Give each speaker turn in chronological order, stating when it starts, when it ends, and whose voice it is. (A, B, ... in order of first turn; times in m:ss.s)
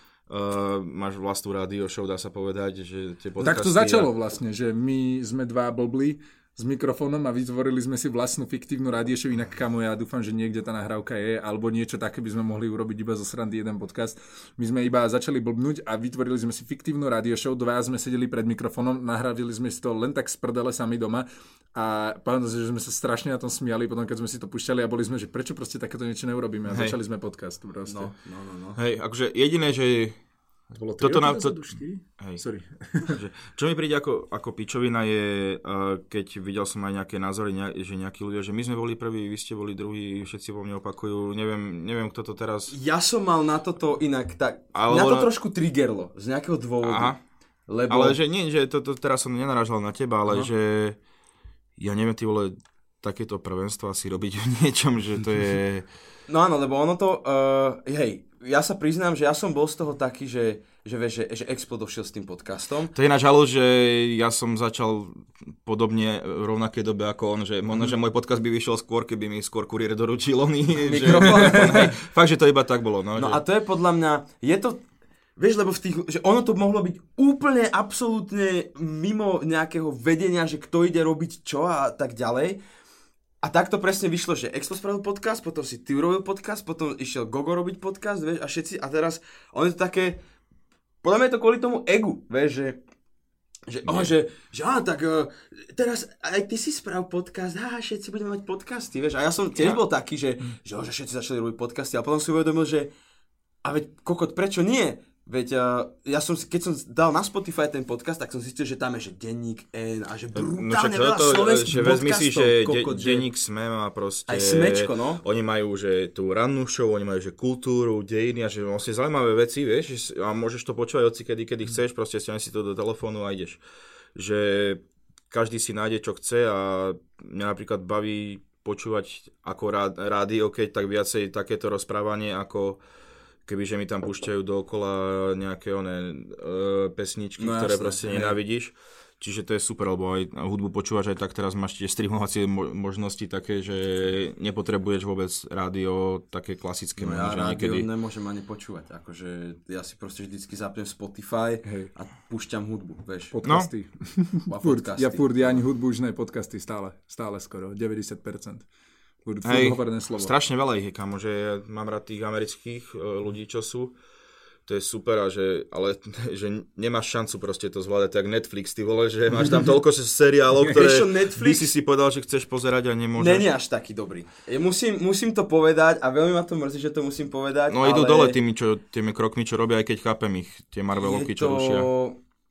0:00.3-0:04.1 A
0:03.4-0:28.1 B
0:26.7-0:27.0 A
0:27.8-0:28.8 C
0:28.8-0:30.2 A
0:30.7-0:33.2 B
0:31.0-0:32.4 A
0:33.0-0:42.7 A
0:42.7-0:47.2 C
0:44.7-0:45.3 A
0:46.8-0:47.2 A
0:47.7-0:48.2 C
0:47.9-0:51.0 A
0:51.8-0:55.8 A
0:56.3-1:02.9 C
1:02.9-1:13.4 A
1:10.8-1:12.0 C
1:11.3-1:11.7 B
1:13.2-1:14.8 C
1:15.4-1:22.6 C
1:23.4-1:30.2 C
1:31.0-1:32.8 C
1:33.7-1:42.9 C
1:33.8-1:34.1 A
1:43.6-1:53.3 C
1:50.3-2:03.6 A
1:54.3-1:55.2 C
2:04.1-2:12.8 A
2:13.4-2:27.9 A
2:17.4-2:18.4 C
2:27.0-2:33.3 C
2:31.6-2:31.9 B
2:33.3-2:38.6 B
2:33.4-2:33.7 A
2:34.5-2:35.6 C
2:39.2-2:40.3 B
2:39.4-2:44.0 A
2:44.6-2:53.5 A
2:50.6-2:51.7 C
2:53.2-2:58.4 C
2:57.7-3:01.9 A
3:00.9-3:02.2 C